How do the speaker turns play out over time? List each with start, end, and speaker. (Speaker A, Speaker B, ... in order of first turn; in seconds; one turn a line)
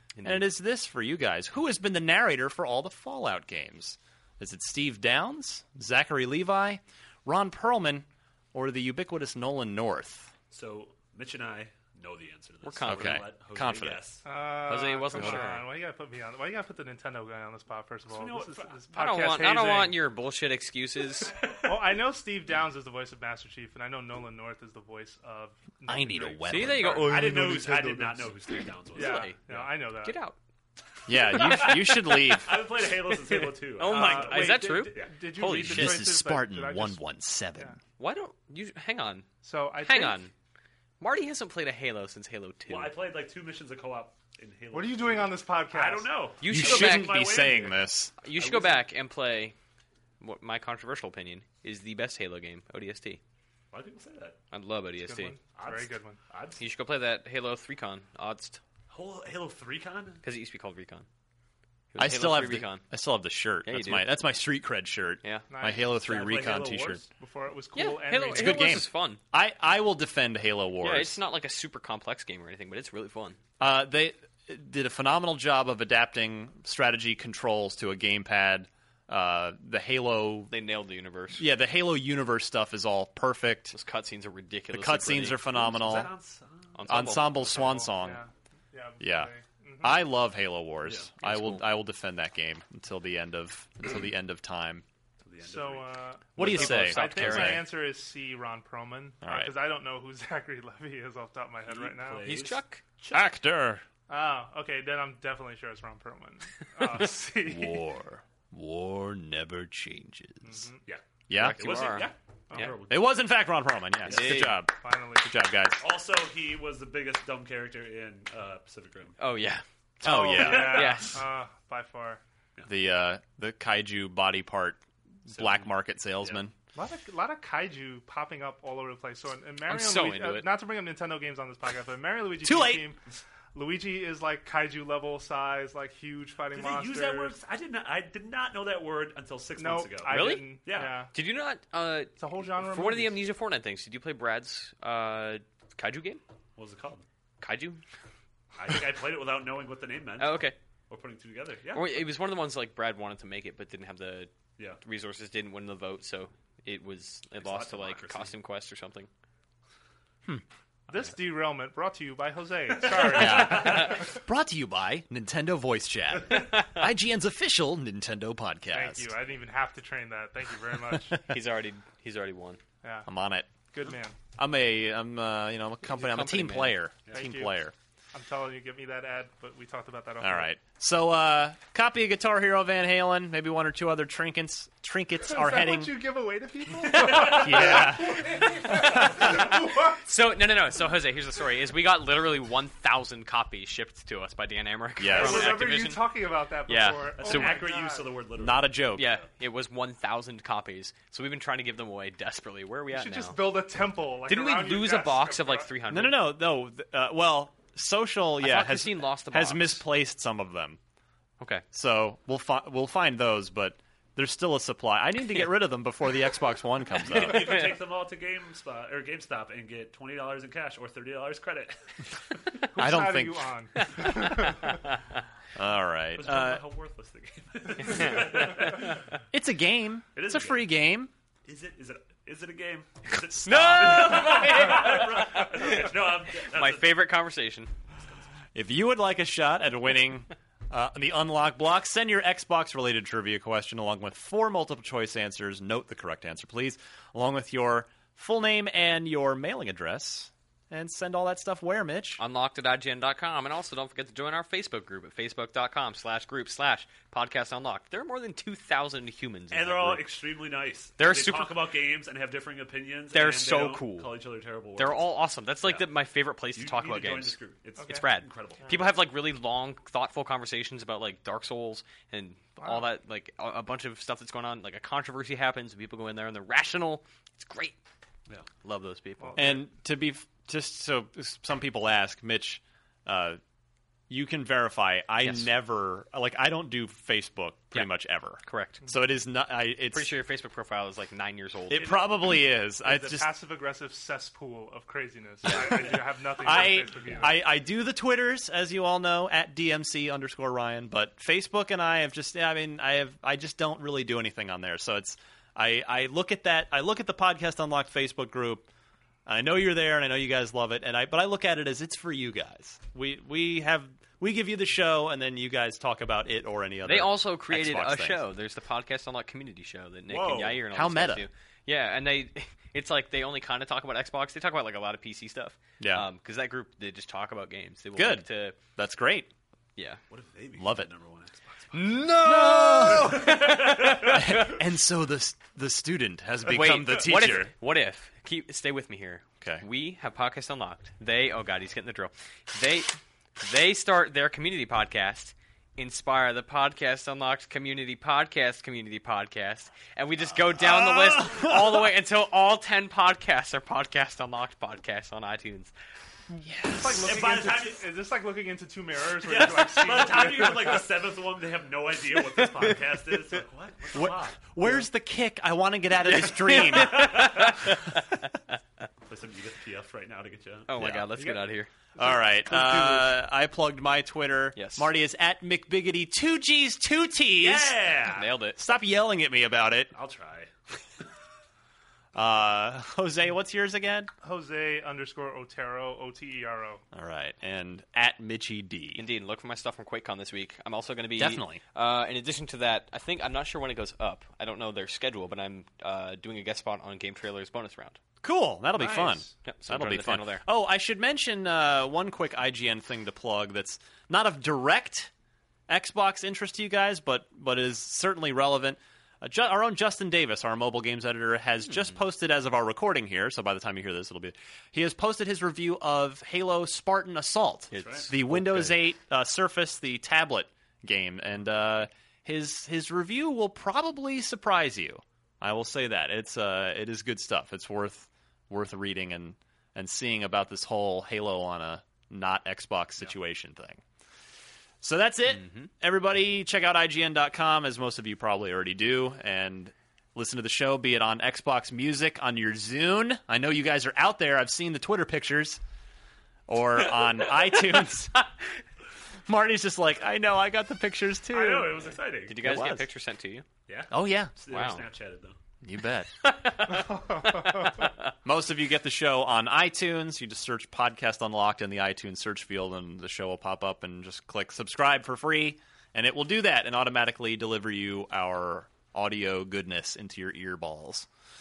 Speaker A: 0.1-0.5
Speaker B: 0.2-10.3
Speaker C: 10.5-14.2
Speaker A: 12.6-13.2
Speaker B: 12.8-14.0
Speaker D: 14.2-20.0
Speaker A: 14.7-15.7
Speaker C: 18.1-18.8
Speaker A: 18.9-21.3
Speaker C: 21.4-22.0
Speaker D: 21.6-28.1
Speaker B: 25.9-27.1
Speaker A: 26.5-27.5
Speaker C: 26.8-29.7
Speaker D: 28.9-30.2
Speaker A: 28.9-29.4
Speaker A: 30.0-30.4
Speaker B: 31.1-32.7
Speaker C: 31.3-35.1
Speaker A: 33.8-36.0
Speaker D: 33.8-37.0
Speaker B: 35.4-37.7
Speaker A: 38.0-39.3
Speaker D: 39.4-40.2
Speaker A: 39.8-40.3
Speaker A: 41.0-42.9
Speaker C: 42.7-48.8
Speaker D: 44.7-46.1
Speaker A: 46.4-47.2
Speaker B: 46.5-48.1
Speaker A: 48.2-49.5
Speaker A: 50.2-53.2
Speaker C: 53.7-54.4
Speaker A: 54.5-55.4
Speaker D: 55.0-56.2
Speaker C: 55.5-56.6
Speaker A: 56.6-58.6
Speaker C: 58.9-60.2
Speaker A: 60.2-61.0
Speaker A: 61.9-62.8
Speaker B: 62.0-67.0
Speaker A: 63.6-64.1
Speaker D: 65.5-66.0
Speaker C: 66.0-67.0
Speaker D: 67.2-68.8
Speaker A: 67.7-69.2
Speaker B: 68.3-71.2
Speaker A: 70.8-73.4
Speaker B: 73.6-80.5
Speaker A: 80.5-81.5
Speaker B: 81.4-83.7
Speaker A: 83.7-85.7
Speaker B: 84.7-86.1
Speaker C: 85.4-86.8
Speaker A: 86.7-87.6
Speaker B: 86.9-88.2
Speaker D: 87.5-90.0
Speaker B: 89.0-94.8
Speaker C: 90.8-91.1
Speaker A: 91.2-91.6
Speaker C: 95.2-96.8
Speaker D: 95.4-102.3
Speaker B: 96.3-97.7
Speaker A: 96.4-97.6
Speaker B: 99.2-99.5
Speaker C: 101.7-103.3
Speaker A: 102.2-102.8
Speaker B: 103.1-103.8
Speaker D: 104.1-107.8
Speaker B: 106.9-110.7
Speaker D: 110.4-110.8
Speaker C: 110.8-113.2
Speaker B: 111.3-112.0
Speaker A: 111.3-112.1
Speaker B: 112.6-115.8
Speaker A: 114.1-114.6
Speaker C: 114.1-114.4
Speaker D: 114.8-115.3
Speaker C: 115.8-119.2
Speaker A: 119.2-119.6
Speaker B: 120.0-121.0
Speaker D: 120.0-122.2
Speaker C: 120.2-121.1
Speaker A: 120.3-121.2
Speaker B: 122.7-126.5
Speaker C: 125.3-126.4
Speaker D: 126.7-133.0
Speaker A: 129.7-130.5
Speaker B: 132.4-132.9
Speaker D: 133.5-137.3
Speaker C: 136.5-141.0
Speaker D: 139.6-141.1
Speaker A: 140.1-140.6
Speaker A: 141.1-146.2
Speaker D: 142.2-143.2
Speaker C: 146.6-147.0
Speaker A: 147.4-147.8
Speaker C: 148.6-152.1
Speaker A: 150.2-150.5
Speaker A: 151.7-154.3
Speaker A: 154.8-159.1
Speaker C: 157.3-158.3
Speaker D: 160.9-164.1
Speaker C: 162.8-164.0
Speaker B: 162.9-169.1
Speaker D: 168.7-171.2
Speaker A: 171.3-172.6
Speaker D: 172.8-173.1
Speaker B: 173.1-173.5
Speaker D: 173.7-174.1
Speaker B: 174.4-177.7
Speaker A: 175.8-176.8
Speaker D: 177.1-177.5
Speaker D: 178.1-180.5
Speaker B: 180.2-186.0
Speaker D: 185.2-190.0
Speaker B: 186.9-189.5
Speaker C: 187.0-187.8
Speaker A: 190.0-196.1
Speaker B: 195.0-195.7
Speaker D: 195.0-198.1
Speaker A: 196.7-197.7
Speaker C: 197.2-199.0
Speaker B: 198.4-199.1
Speaker A: 198.9-203.4
Speaker D: 202.9-205.7
Speaker A: 204.3-206.2
Speaker B: 205.9-210.8
Speaker A: 208.4-209.8
Speaker A: 211.4-211.6
Speaker B: 211.7-217.7
Speaker C: 217.0-221.8
Speaker A: 217.1-217.8
Speaker D: 222.7-224.8
Speaker B: 222.8-223.5
Speaker A: 224.0-224.9
Speaker B: 225.5-226.6
Speaker C: 226.1-229.0
Speaker A: 227.8-228.8
Speaker B: 229.3-231.1
Speaker C: 230.1-230.7
Speaker C: 231.4-237.1
Speaker A: 233.4-237.7
Speaker B: 233.5-234.2
Speaker C: 238.0-238.3
Speaker B: 238.5-252.2
Speaker A: 252.2-260.1
Speaker C: 259.5-265.1
Speaker A: 261.0-261.6
Speaker A: 263.1-264.1
Speaker A: 264.8-267.4
Speaker C: 266.6-268.9
Speaker A: 267.9-277.7
Speaker D: 272.6-272.9
Speaker A: 278.6-279.6
Speaker D: 279.2-279.6
Speaker B: 279.4-283.4
Speaker B: 284.1-290.1
Speaker A: 285.2-285.5
Speaker A: 287.7-288.8
Speaker A: 289.9-292.0
Speaker B: 291.7-293.3
Speaker C: 291.7-292.3
Speaker D: 292.8-297.4
Speaker B: 295.4-295.8
Speaker B: 296.4-308.7
Speaker B: 309.2-318.2
Speaker A: 316.8-328.6
Speaker C: 320.1-320.6
Speaker B: 320.7-321.2
Speaker B: 325.8-326.1
Speaker B: 327.9-329.3
Speaker C: 330.1-332.1
Speaker B: 330.6-330.9
Speaker A: 331.9-333.8
Speaker B: 332.1-337.5
Speaker C: 332.8-334.4
Speaker A: 336.5-355.7
Speaker B: 350.6-351.8
Speaker B: 356.4-357.1
Speaker D: 356.7-360.9
Speaker C: 357.0-357.9
Speaker C: 359.2-364.4
Speaker B: 363.9-367.5
Speaker C: 366.1-367.6
Speaker A: 366.2-367.7
Speaker C: 369.1-370.7
Speaker A: 370.7-371.7
Speaker B: 370.8-371.1
Speaker D: 371.9-373.2
Speaker B: 372.0-377.8
Speaker A: 374.6-374.9
Speaker C: 377.4-378.3
Speaker A: 378.1-378.6
Speaker B: 378.6-379.9
Speaker C: 379.9-380.5
Speaker B: 382.1-384.1
Speaker D: 384.2-386.8
Speaker B: 386.9-389.0
Speaker A: 388.9-398.0
Speaker B: 391.2-391.6
Speaker B: 398.2-405.1
Speaker D: 398.7-399.3
Speaker A: 399.4-400.4
Speaker B: 405.7-433.8
Speaker A: 417.7-418.8
Speaker C: 417.8-418.1
Speaker B: 434.8-445.6
Speaker B: 446.5-448.2
Speaker B: 449.3-451.9
Speaker C: 451.3-452.4
Speaker A: 452.3-453.4
Speaker B: 452.4-452.9
Speaker C: 453.7-455.4
Speaker B: 453.9-454.3
Speaker A: 454.5-454.8
Speaker B: 455.6-456.1
Speaker A: 456.2-458.1
Speaker D: 456.7-457.9
Speaker B: 458.2-471.1